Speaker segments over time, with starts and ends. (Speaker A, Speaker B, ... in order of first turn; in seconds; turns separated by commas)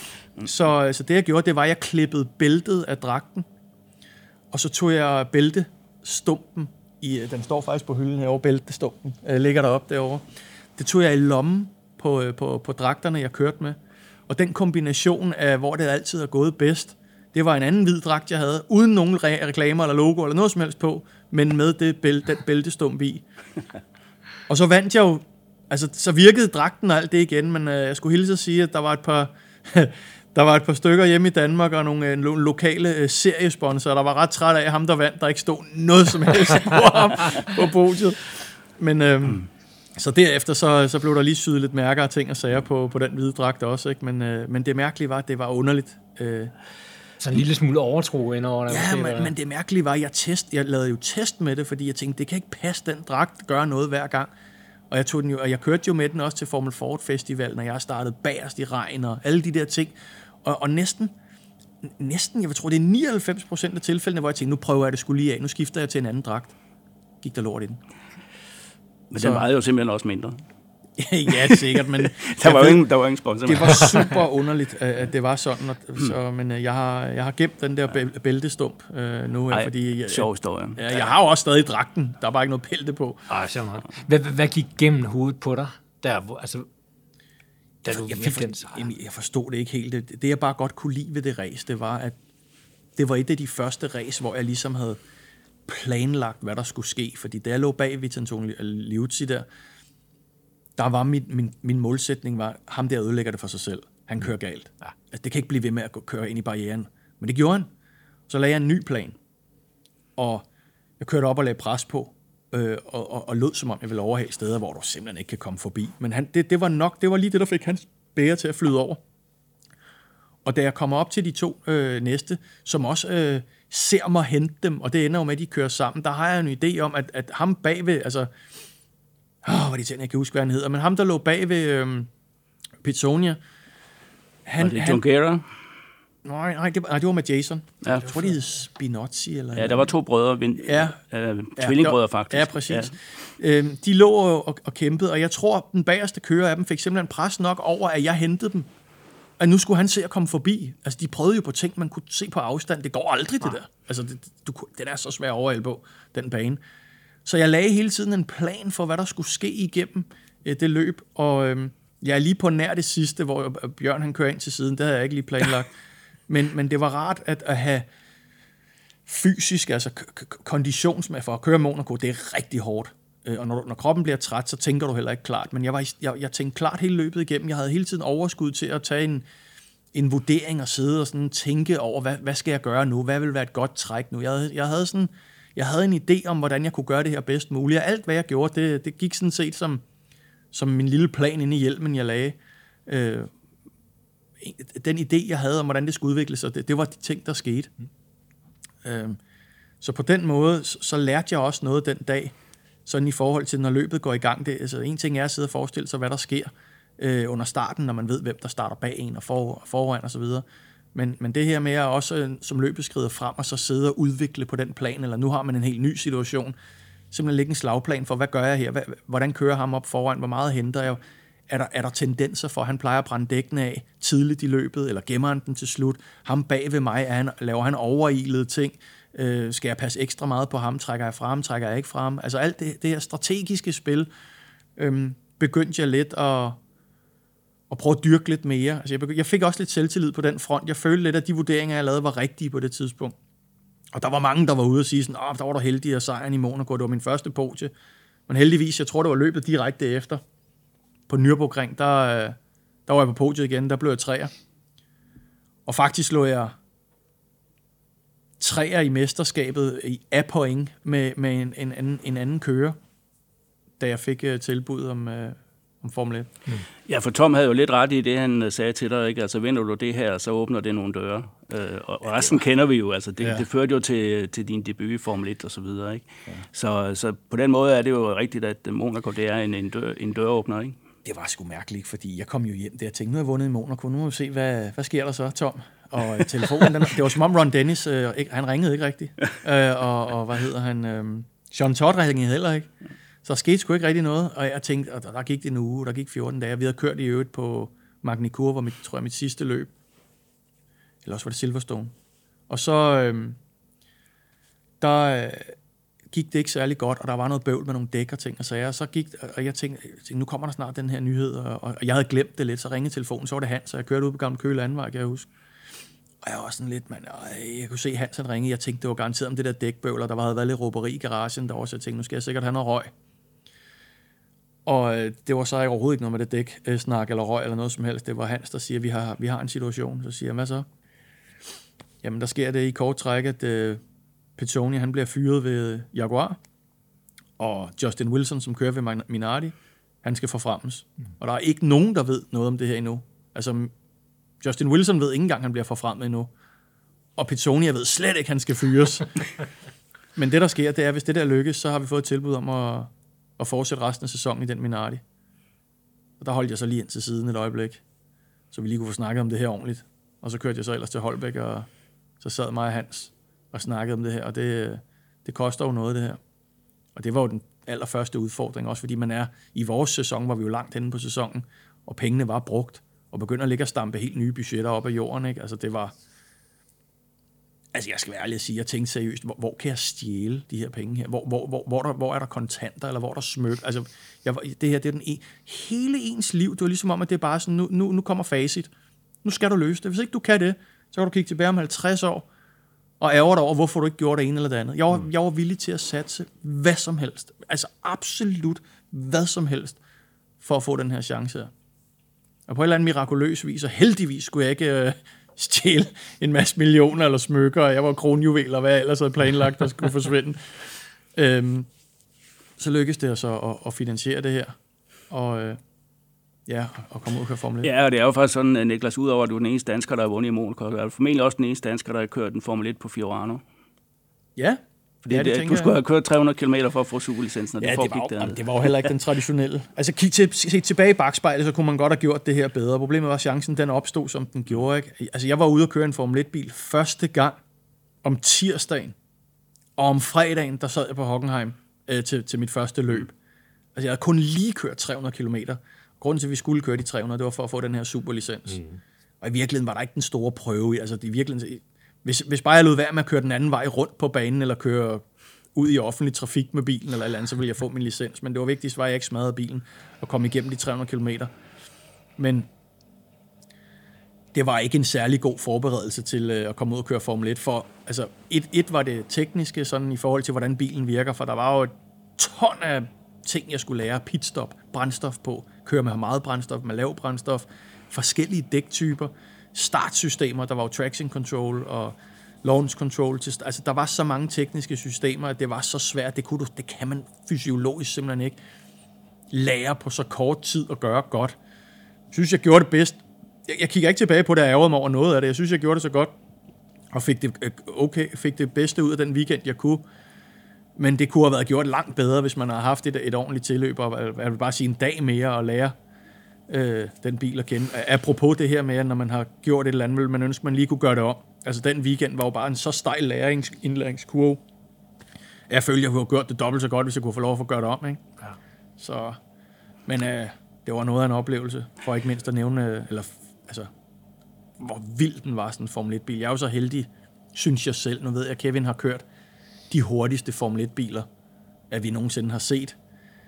Speaker A: 0.4-3.5, Speaker A: 4.5-10.2, Speaker A: 10.8-13.8, Speaker A: 14.3-23.2, Speaker A: 24.5-46.5, Speaker B: 47.2-49.3, Speaker A: 48.7-54.3, Speaker A: 54.9-61.1, Speaker A: 61.8-66.6, Speaker A: 67.2-67.8, Speaker C: 69.1-70.4, Speaker A: 69.2-69.5, Speaker A: 71.0-72.8, Speaker C: 71.3-74.2, Speaker A: 73.4-83.3, Speaker C: 79.5-81.0, Speaker B: 83.3-86.7, Speaker B: 87.8-88.9, Speaker A: 87.9-92.2, Speaker A: 93.0-95.0, Speaker A: 95.7-99.5, Speaker A: 100.8-107.7, Speaker A: 108.3-109.2, Speaker A: 110.2-110.5, Speaker A: 111.0-119.0, Speaker A: 120.5-128.3, Speaker A: 129.4-132.1, Speaker A: 132.8-133.4, Speaker A: 134.5-135.0, Speaker C: 134.6-135.4, Speaker A: 136.2-139.9, Speaker C: 139.6-143.0, Speaker A: 140.6-140.9, Speaker A: 141.6-148.7, Speaker A: 149.4-156.6, Speaker A: 157.2-165.7, Speaker A: 166.3-167.9, Speaker A: 169.1-179.2, Speaker A: 179.9-189.8, Speaker A: 190.5-193.3, Speaker A: 194.4-197.7, Speaker A: 198.8-199.2, Speaker A: 199.8-202.3, Speaker A: 202.9-216.6, Speaker A: 217.1-234.1, Speaker A: 234.8-236.6, Speaker A: 237.7-243.2, Speaker A: 243.9-247.7, Speaker A: 248.3-250.2, Speaker A: 251.1-254.3, Speaker A: 255.7-256.6, Speaker A: 258.4-262.8, Speaker A: 263.8-266.3, Speaker C: 266.9-280.8, Speaker A: 272.1-272.4, Speaker A: 273.2-273.4, Speaker A: 281.1-292.7, Speaker A: 293.2-299.7, Speaker A: 301.1-301.9, Speaker A: 302.5-303.4, Speaker A: 304.8-305.6, Speaker A: 306.1-315.3, Speaker A: 316.2-322.9, Speaker A: 324.7-330.7, Speaker A: 332.0-333.8, Speaker A: 334.4-336.4, Speaker A: 337.4-343.7, Speaker A: 344.4-346.3, Speaker A: 347.2-349.2, Speaker A: 350.2-355.0, Speaker A: 356.2-357.8, Speaker A: 358.5-361.7, Speaker A: 362.2-366.2, Speaker A: 366.9-375.9, Speaker A: 377.7-388.7, Speaker A: 389.2-392.3, Speaker A: 393.0-399.8, Speaker A: 400.4-401.5, Speaker A: 402.5-411.7, Speaker A: 412.6-414.6, Speaker A: 415.1-415.6, Speaker A: 416.5-417.7, Speaker C: 417.6-423.4, Speaker A: 424.4-425.7, Speaker C: 425.1-428.9, Speaker A: 427.6-437.4, Speaker A: 438.0-439.0, Speaker A: 439.8-443.1, Speaker A: 443.8-448.6, Speaker A: 449.2-455.0, Speaker A: 455.6-461.3, Speaker A: 462.2-462.5, Speaker A: 464.3-488.4, Speaker A: 489.3-491.4, Speaker A: 492.1-496.1, Speaker A: 496.9-499.8, Speaker A: 500.8-505.7, Speaker A: 506.5-514.4, Speaker A: 515.5-518.1, Speaker A: 518.8-519.2, Speaker A: 519.9-523.7, Speaker A: 524.6-529.0, Speaker A: 529.7-531.1, Speaker A: 531.7-532.8